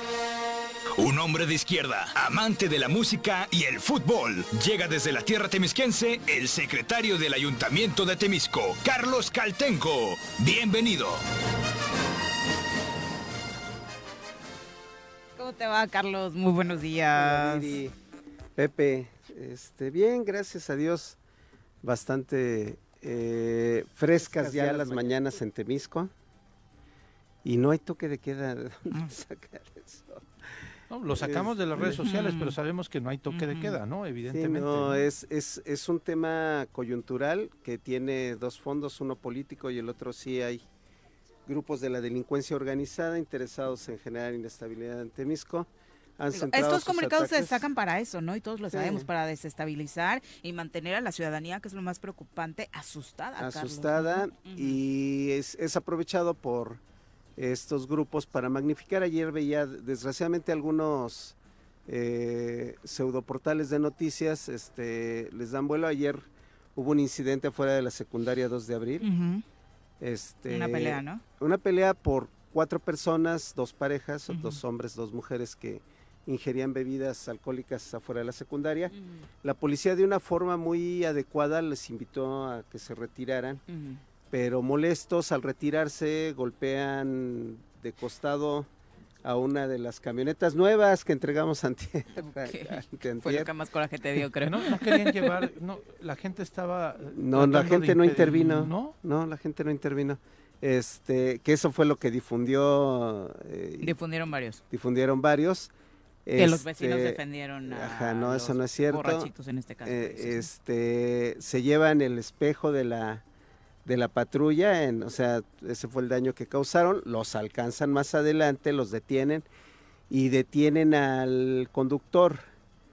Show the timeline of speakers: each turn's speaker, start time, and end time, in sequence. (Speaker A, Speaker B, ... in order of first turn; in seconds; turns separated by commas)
Speaker A: 1.0-11.2, Speaker B: 15.4-17.8, Speaker C: 17.1-17.9, Speaker C: 18.6-21.2, Speaker C: 21.8-26.1, Speaker D: 24.1-25.1, Speaker C: 27.4-30.3, Speaker B: 28.9-29.1, Speaker D: 30.9-35.0, Speaker C: 31.2-32.0, Speaker B: 32.0-32.5, Speaker B: 33.3-33.8, Speaker C: 34.3-40.6, Speaker C: 41.5-47.6, Speaker B: 46.3-54.8, Speaker C: 48.7-49.1, Speaker C: 53.4-56.8, Speaker C: 57.4-61.4, Speaker C: 61.9-69.1, Speaker B: 69.0-69.4, Speaker C: 70.0-83.6, Speaker B: 70.5-71.2, Speaker B: 74.3-74.6, Speaker B: 83.7-84.0, Speaker C: 84.3-88.7, Speaker C: 89.2-93.5, Speaker B: 92.2-95.3, Speaker D: 94.4-98.9, Speaker C: 97.2-104.0, Speaker B: 103.8-104.6, Speaker C: 104.7-105.7, Speaker C: 106.3-109.3, Speaker B: 106.3-110.5, Speaker C: 109.8-113.2, Speaker C: 113.8-119.5, Speaker C: 120.1-122.5